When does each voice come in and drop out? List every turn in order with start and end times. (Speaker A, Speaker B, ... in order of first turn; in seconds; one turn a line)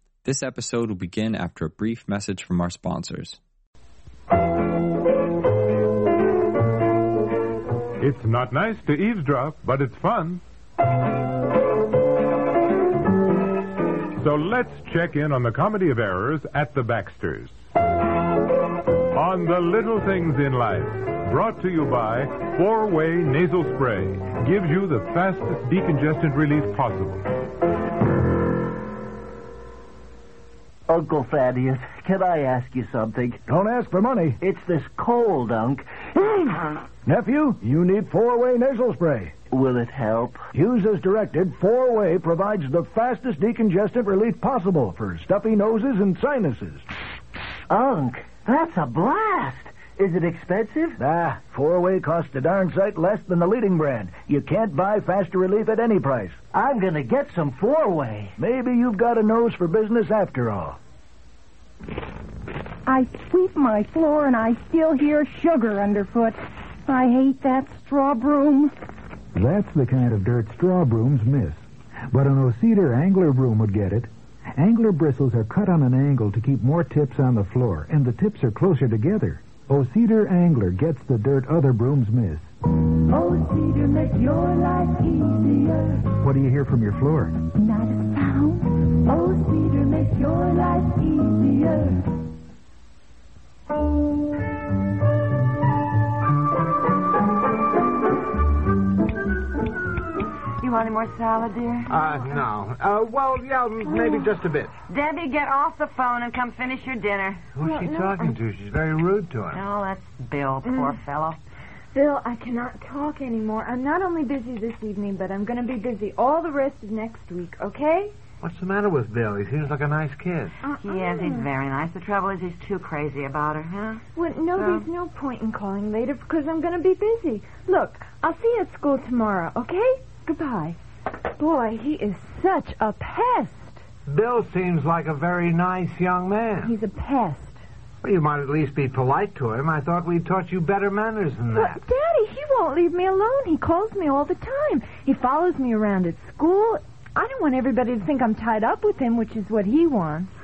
Speaker A: 0.2-3.4
Speaker B: 8.0-10.4
Speaker B: 14.2-17.5
Speaker B: 19.1-27.2
Speaker C: 30.9-33.4
Speaker D: 33.5-34.4
Speaker C: 34.4-36.8
Speaker D: 37.0-39.3
Speaker C: 39.5-40.5
Speaker D: 40.5-46.8
Speaker C: 47.7-51.0
Speaker D: 51.0-56.4
Speaker C: 56.5-58.3
Speaker D: 58.4-60.8
Speaker E: 62.9-68.7
Speaker F: 69.3-71.6
Speaker F: 72.1-82.4
Speaker G: 83.1-86.1
Speaker F: 86.1-87.4
Speaker G: 87.5-92.2
Speaker H: 100.6-101.9
Speaker I: 101.9-104.7
Speaker H: 104.9-107.5
Speaker I: 107.5-109.6
Speaker G: 107.6-108.3
Speaker H: 109.5-111.4
Speaker G: 110.6-111.0
Speaker G: 111.9-118.1
Speaker I: 118.4-120.5
Speaker G: 120.6-121.5
Speaker H: 120.8-124.0
Speaker G: 124.1-133.8
Speaker H: 124.5-124.8
Speaker I: 134.1-136.7
Speaker G: 136.6-137.6
Speaker I: 138.0-141.8
Speaker G: 141.5-150.3